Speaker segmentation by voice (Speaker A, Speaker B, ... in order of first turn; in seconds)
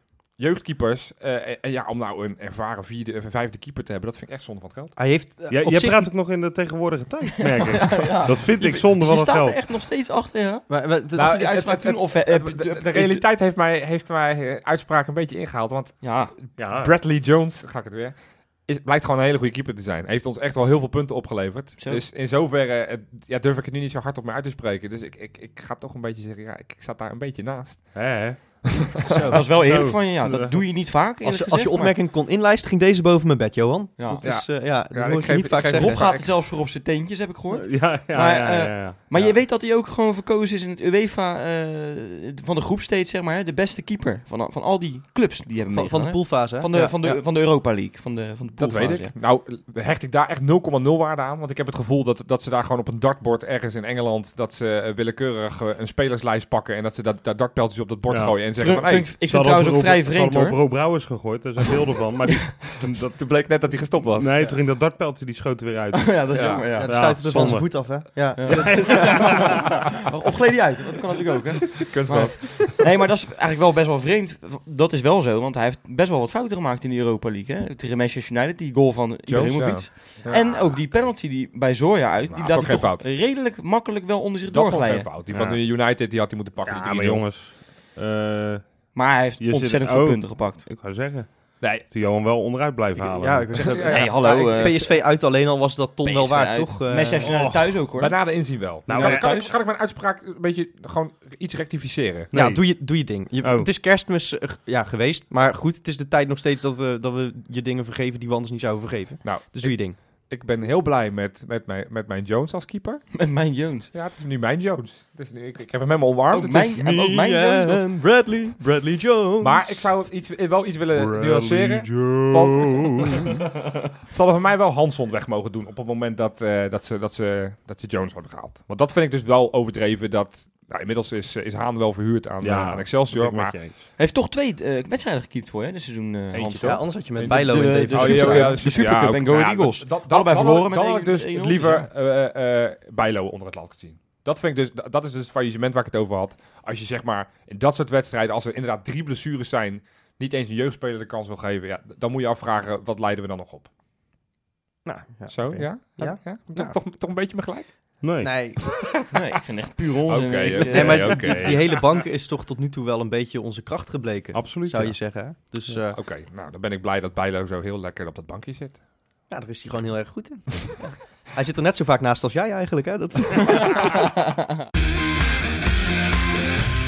Speaker A: 0.4-4.9, 11.2-28.0, 28.6-29.3, 34.2-36.3, 48.5-59.1, 62.8-64.3, 66.3-66.7, 71.8-72.8, 79.3-81.1, 82.3-83.0, 84.5-87.2, 91.6-91.8, 93.5-94.8, 98.0-102.3, 109.2-109.8, 110.3-113.0, 113.9-116.7, 119.4-123.3, 124.1-133.6, 136.3-153.7, 155.3-157.7, 160.1-161.7, 165.9-168.8
Speaker B: 5.0-6.1, 10.7-11.4, 29.1-29.4, 31.2-36.0, 45.6-47.2, 66.8-69.6, 93.0-97.2, 102.3-110.0, 116.5-119.8, 136.6-138.6, 154.8-156.8, 158.2-158.8, 160.7-166.0, 169.3-174.1
Speaker C: 5.5-9.6, 16.6-16.9, 27.9-28.6, 29.4-30.5, 37.5-39.0, 58.1-58.4, 59.2-63.2, 64.1-66.1, 66.8-69.6, 85.3-85.6, 86.6-88.6, 89.4-93.6, 97.2-97.8, 98.9-99.3, 102.3-102.7, 103.4-103.7, 120.9-123.3, 132.4-133.8, 158.0-158.3, 164.3-165.0
Speaker D: 7.5-13.2, 16.0-16.3, 21.8-22.0, 29.3-31.9, 34.0-34.3, 35.7-49.1, 58.6-60.6, 66.0-67.5, 68.3-85.1, 88.9-90.7, 93.7-94.9, 96.0-98.2, 98.8-99.5, 113.1-113.9, 116.3-117.8, 134.0-141.9, 159.1-161.5